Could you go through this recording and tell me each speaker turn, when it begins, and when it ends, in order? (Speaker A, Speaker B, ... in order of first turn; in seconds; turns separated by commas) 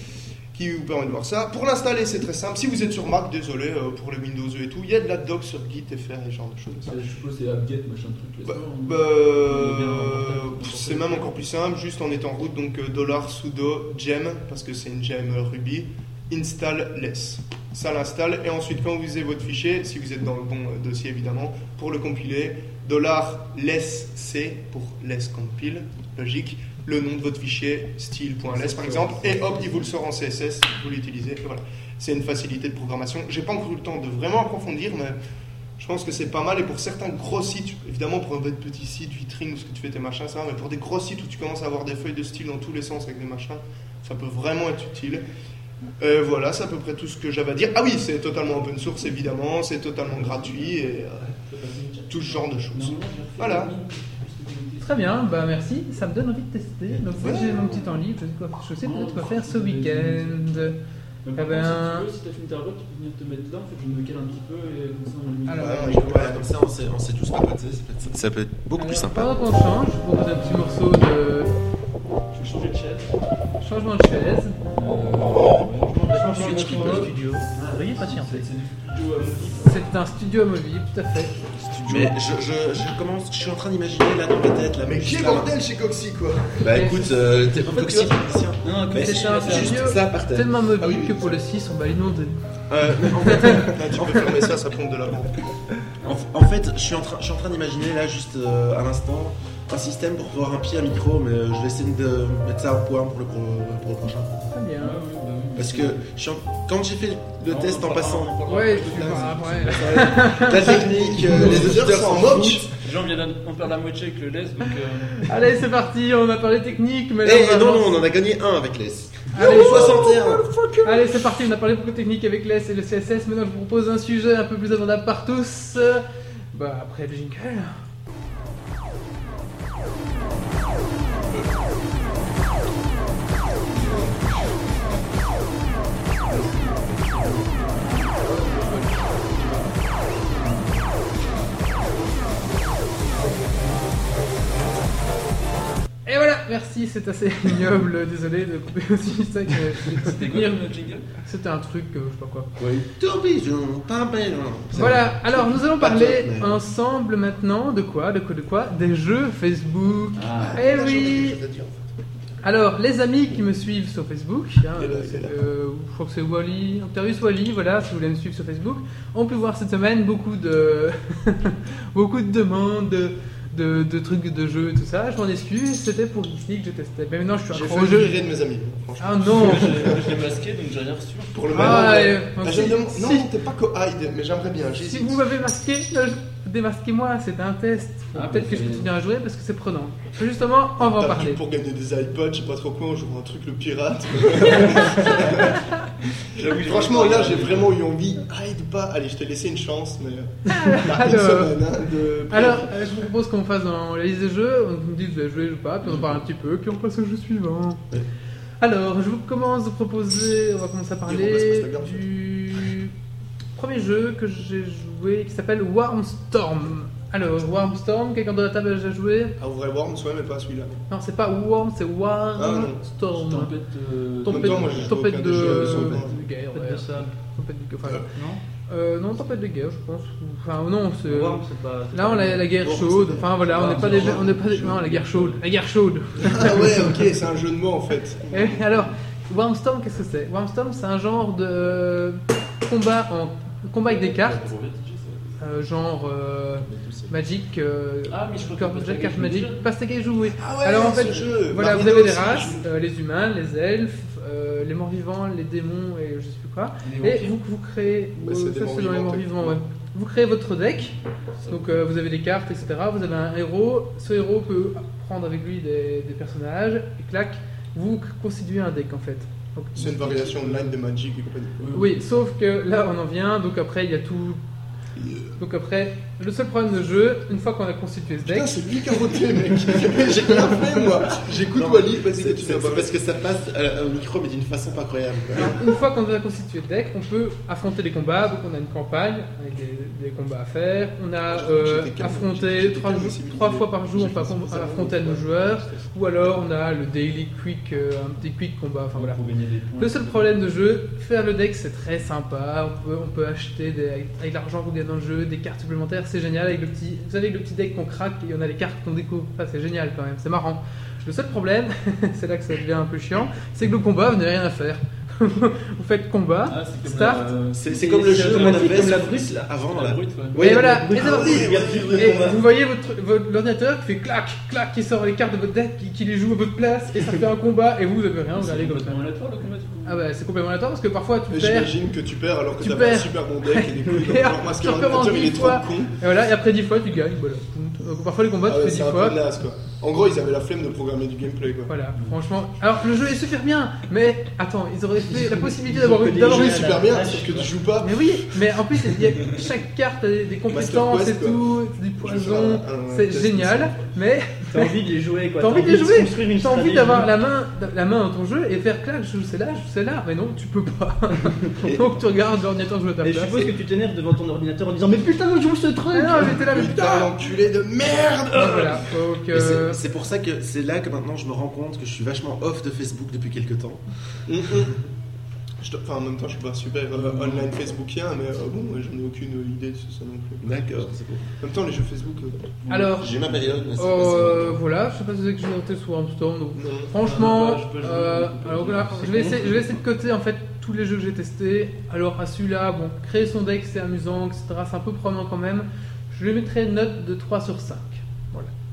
Speaker A: 0.5-7.0, Speaker B: 6.8-11.3, Speaker A: 8.4-35.2, Speaker B: 28.4-29.9, Speaker A: 35.8-45.2, Speaker A: 46.0-51.2, Speaker B: 50.1-55.2, Speaker A: 52.1-53.7, Speaker C: 54.8-60.8, Speaker D: 56.9-57.6, Speaker A: 57.2-57.6, Speaker B: 58.8-60.7, Speaker B: 61.2-66.4, Speaker C: 61.4-62.1, Speaker C: 65.5-66.0, Speaker D: 65.5-69.3, Speaker A: 65.6-66.4, Speaker C: 68.8-71.5, Speaker B: 70.3-70.9, Speaker B: 72.3-73.1, Speaker C: 73.6-74.5, Speaker B: 74.7-79.9, Speaker E: 75.9-78.5, Speaker C: 76.5-77.0, Speaker C: 79.6-81.4, Speaker D: 81.8-85.5, Speaker A: 84.8-87.0, Speaker D: 86.6-90.6, Speaker C: 86.7-87.1, Speaker B: 87.5-89.9, Speaker C: 88.9-92.3, Speaker A: 90.8-91.4, Speaker D: 92.7-94.4, Speaker C: 93.2-93.7, Speaker A: 93.5-95.4, Speaker D: 96.0-104.5, Speaker C: 104.5-105.0, Speaker B: 104.8-106.0, Speaker D: 105.5-112.6, Speaker B: 107.5-110.6, Speaker C: 108.5-111.7, Speaker A: 110.6-112.7, Speaker B: 111.3-111.7, Speaker B: 112.8-115.4, Speaker C: 115.2-118.0, Speaker D: 117.2-120.4, Speaker C: 119.3-120.1, Speaker A: 119.3-121.2, Speaker C: 120.8-127.8, Speaker B: 133.7-134.1, Speaker A: 133.8-134.1, Speaker B: 136.2-138.1, Speaker A: 138.1-139.7, Speaker B: 140.1-140.8, Speaker A: 142.8-144.9, Speaker C: 146.1-150.6, Speaker B: 149.7-151.1, Speaker C: 151.2-152.5, Speaker B: 152.6-152.9, Speaker D: 152.9-156.6, Speaker C: 154.7-161.4, Speaker B: 160.1-160.6, Speaker A: 160.3-161.8, Speaker C: 162.4-178.2, Speaker A: 164.8-165.3, Speaker A: 177.5-180.1, Speaker C: 179.0-180.1, Speaker B: 179.3-181.8, Speaker A: 181.3-185.2, Speaker C: 181.5-183.3, Speaker C: 184.8-191.4, Speaker B: 188.1-188.9, Speaker A: 190.9-195.7, Speaker B: 196.3-197.8, Speaker A: 196.4-202.8, Speaker C: 200.5-201.6, Speaker C: 202.3-207.8, Speaker C: 208.6-212.9, Speaker A: 211.1-212.0, Speaker C: 213.6-219.3, Speaker A: 219.4-220.8, Speaker C: 220.9-223.5, Speaker A: 222.4-222.8, Speaker B: 223.2-224.9, Speaker C: 224.2-228.1, Speaker A: 224.2-226.2, Speaker E: 226.5-227.1, Speaker E: 228.1-228.4, Speaker C: 228.7-237.0, Speaker E: 231.0-232.7, Speaker D: 232.6-234.8, Speaker A: 233.5-234.7, Speaker B: 233.6-234.2, Speaker A: 236.2-238.9, Speaker C: 238.3-244.4, Speaker B: 243.8-245.4, Speaker C: 245.4-260.9, Speaker B: 248.1-249.7, Speaker A: 250.4-252.7, Speaker B: 256.8-257.4, Speaker A: 258.2-259.6, Speaker B: 261.4-261.7, Speaker C: 261.5-270.5, Speaker A: 269.8-271.7, Speaker B: 271.6-272.0, Speaker C: 271.7-274.4, Speaker A: 275.0-275.3, Speaker C: 275.4-278.6, Speaker A: 278.2-282.9, Speaker D: 279.9-280.9, Speaker D: 281.5-285.7, Speaker C: 285.4-299.2, Speaker A: 291.3-295.2, Speaker B: 298.9-300.4, Speaker C: 299.8-317.2, Speaker B: 316.5-320.4, Speaker D: 317.5-321.9, Speaker E: 318.1-319.3, Speaker E: 320.3-322.4, Speaker C: 320.4-329.0, Speaker A: 321.0-322.4, Speaker B: 328.3-330.0, Speaker C: 329.9-331.7, Speaker A: 331.3-335.9, Speaker C: 332.6-339.2, Speaker A: 338.4-341.7, Speaker C: 341.7-346.9, Speaker E: 345.1-347.5, Speaker A: 346.1-348.2, Speaker C: 347.8-354.7, Speaker A: 350.5-351.4, Speaker A: 352.0-353.9, Speaker E: 354.5-357.1, Speaker C: 355.4-363.5, Speaker E: 363.0-366.4, Speaker C: 365.9-367.1, Speaker A: 366.4-368.9, Speaker C: 368.3-369.8, Speaker D: 369.3-373.8, Speaker A: 374.3-374.8, Speaker A: 375.6-380.8, Speaker D: 380.4-381.2, Speaker A: 381.4-382.6, Speaker B: 382.6-383.7, Speaker C: 382.7-383.2, Speaker D: 383.0-384.6, Speaker C: 383.8-398.5, Speaker A: 386.5-386.9, Speaker B: 387.0-389.6